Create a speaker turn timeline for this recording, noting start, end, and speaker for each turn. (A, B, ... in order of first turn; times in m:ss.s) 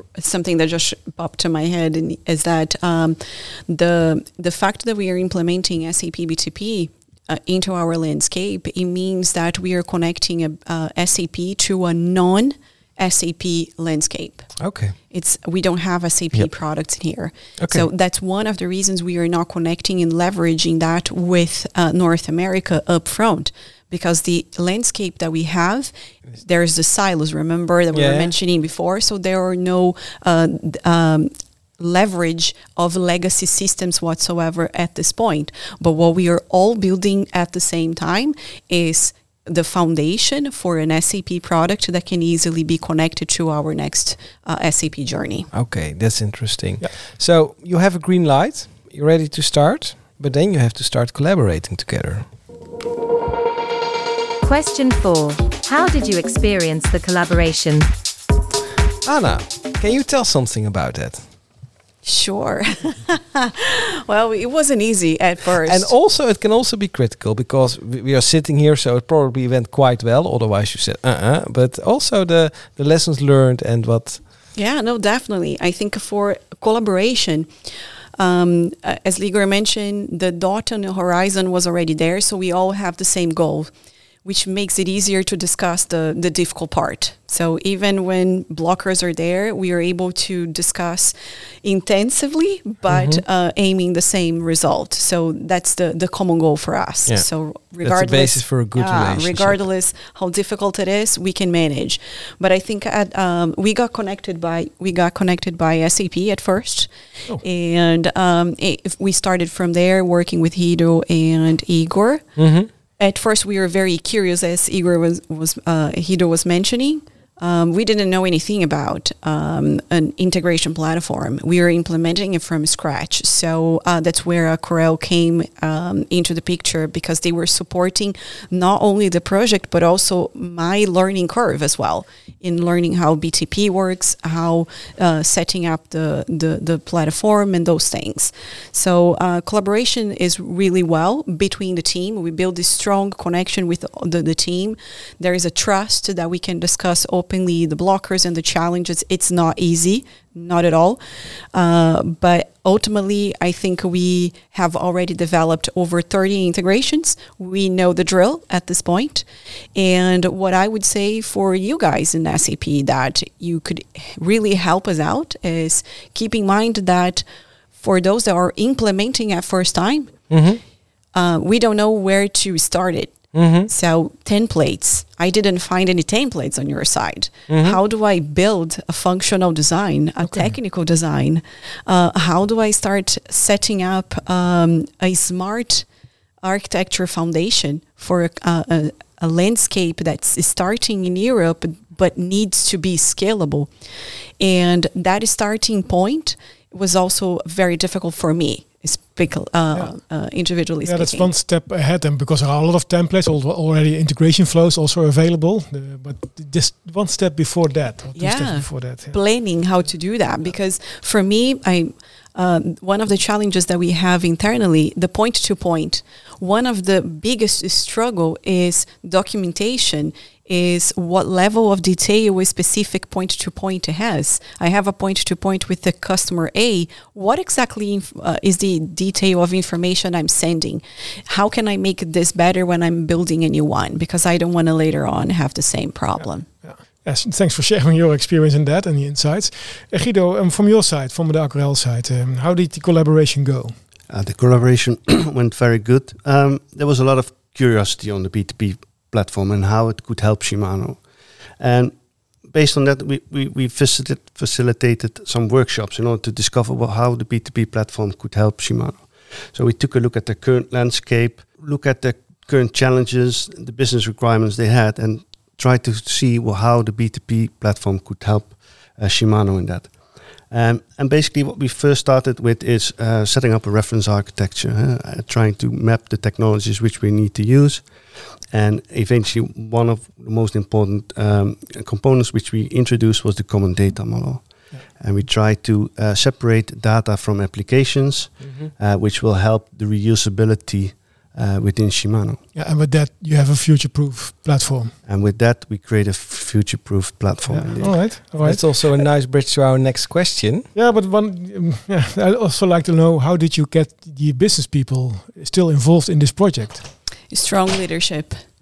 0:00.2-0:14.6 A
0:14.6-0:15.0 B
0:15.1-0:45.5 A
0:17.6-0:17.9 B
0:27.9-0:28.3 B
0:45.5-0:52.3 B
0:54.4-0:57.9 C
0:59.0-1:01.3 B
1:02.0-1:05.9 A
1:05.6-1:14.2 B
1:14.6-1:17.5 A
1:18.2-1:23.7 A
1:24.2-1:52.3 A
1:32.9-1:33.2 B
1:37.8-1:39.6 B
1:52.4-1:52.7 B
1:53.0-2:31.0 A
2:31.5-2:47.2 A
2:47.8-2:50.2 A
2:50.3-2:50.6 B
2:51.1-3:05.9 A
2:53.3-2:53.7 B
2:57.5-2:57.8 B
3:06.4-3:13.7 A
3:14.4-3:21.3 A
3:20.8-3:29.2 D
3:28.2-3:56.5 A
3:56.2-4:03.8 D
4:04.1-4:52.4 E
4:48.4-4:48.7 B
4:52.5-4:55.0 D
4:55.0-4:58.2 E
4:57.5-4:59.0 D
4:58.4-5:00.7 B
5:00.7-5:06.9 D
5:07.3-5:08.4 A